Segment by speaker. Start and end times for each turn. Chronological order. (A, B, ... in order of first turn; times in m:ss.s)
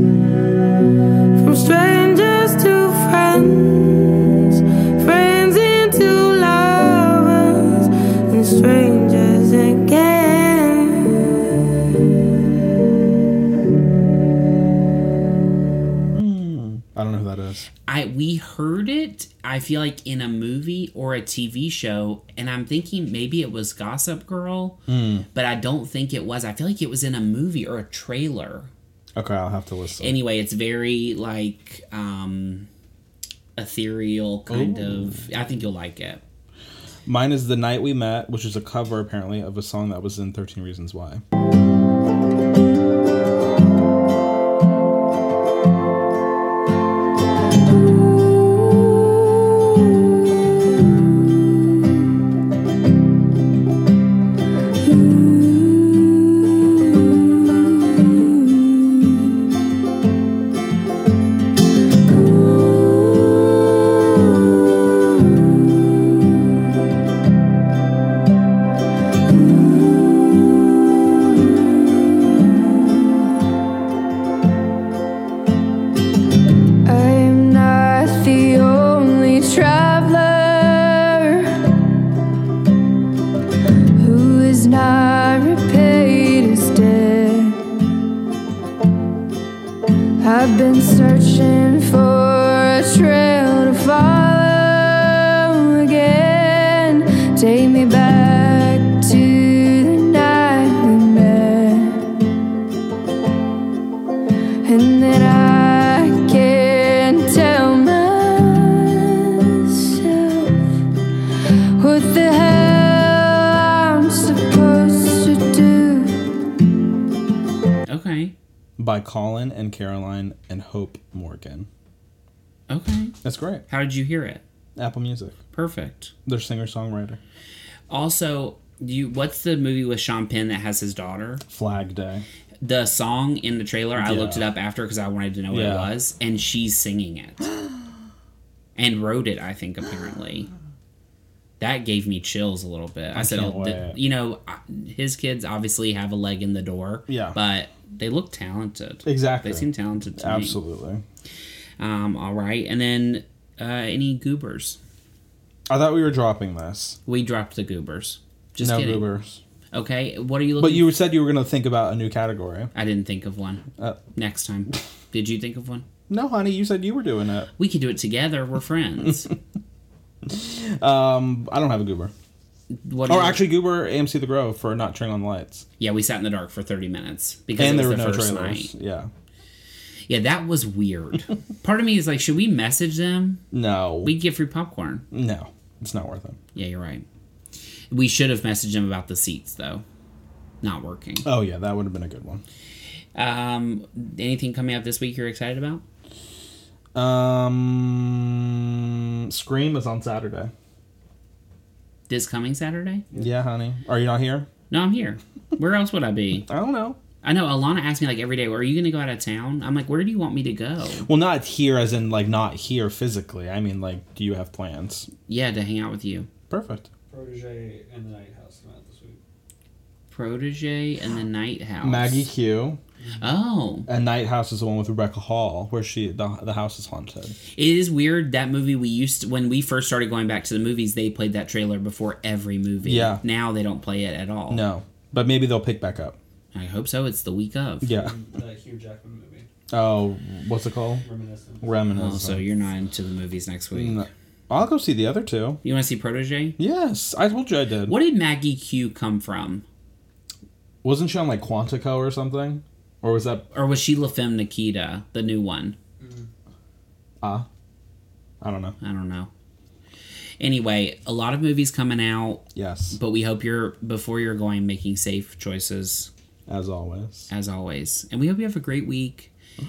0:01.4-0:11.5 A
0:16.1-0:17.7 B
0:17.9-0:24.8 C
0:24.9-0:25.3 B
0:25.3-0:28.7 C
0:29.2-0:30.2 B
0:30.0-0:32.7 C
0:33.6-0:36.2 C
0:34.5-0:35.2 B
0:37.1-0:41.2 B
0:55.3-0:56.3 A
1:16.8-1:21.7 D
1:24.0-1:27.6 D
1:30.2-1:42.2 D
1:44.6-1:50.8 D
1:51.8-1:56.3 D
1:57.9-1:58.4 C
1:58.8-2:01.7 B
2:02.7-2:04.4 C
2:03.2-2:03.6 B
2:04.8-2:05.4 B
2:05.5-2:06.1 C
2:06.3-2:07.2 B
2:07.9-2:11.4 C
2:11.5-2:12.2 B
2:12.6-2:17.5 C
2:14.0-2:14.5 B
2:15.5-2:15.9 B
2:18.8-2:20.5 C
2:21.6-2:30.6 C
2:23.1-2:24.0 B
2:27.1-2:27.4 B
2:29.0-2:31.0 B
2:31.8-2:34.8 C
2:35.7-2:37.0 B
2:37.1-2:39.1 C
2:38.6-2:39.4 B
2:39.7-2:40.9 C
2:40.6-2:42.7 B
2:42.8-2:45.8 C
2:46.1-2:47.5 B
2:47.6-2:49.3 C
2:50.2-2:52.1 B
2:52.7-2:53.5 C
2:53.1-2:55.6 B
2:55.8-2:58.7 C
2:57.6-2:59.1 B
3:00.1-3:03.4 C
3:03.5-3:04.1 B
3:04.0-3:05.0 C
3:05.1-3:06.4 B
3:06.6-3:07.0 C
3:07.9-3:09.8 C
3:10.6-3:11.3 C
3:11.2-3:12.4 B
3:13.2-3:15.8 C
3:17.0-3:20.5 B
3:22.1-3:23.0 C
3:23.1-3:24.5 B
3:24.7-3:26.5 C
3:26.5-3:27.0 B
3:27.2-3:31.0 C
3:31.0-3:35.1 B
3:35.3-3:36.3 C
3:36.5-3:36.9 B
3:37.1-3:39.2 E
3:40.1-3:42.3 C
3:41.8-3:42.8 B
3:43.0-3:43.3 E
3:43.2-3:43.9 C
3:43.9-3:47.4 B
3:47.6-3:54.6 C
3:52.8-3:53.2 B
3:54.5-3:56.2 B
3:56.5-3:57.9 C
3:57.8-3:58.2 B
3:57.9-3:59.5 E
3:59.7-4:01.0 B
4:01.0-4:01.7 E
4:01.6-4:02.4 B
4:01.9-4:04.1 C
4:03.7-4:05.6 B
4:05.6-4:06.6 C
4:06.6-4:08.0 B
4:07.9-4:09.6 C
4:10.8-4:13.4 B
4:13.5-4:15.8 C
4:16.0-4:16.3 E
4:17.2-4:17.5 B
4:18.4-4:18.8 B
4:18.8-4:19.3 C
4:20.4-4:26.1 C
4:22.5-4:23.0 B
4:26.5-4:27.3 B
4:27.3-4:29.3 C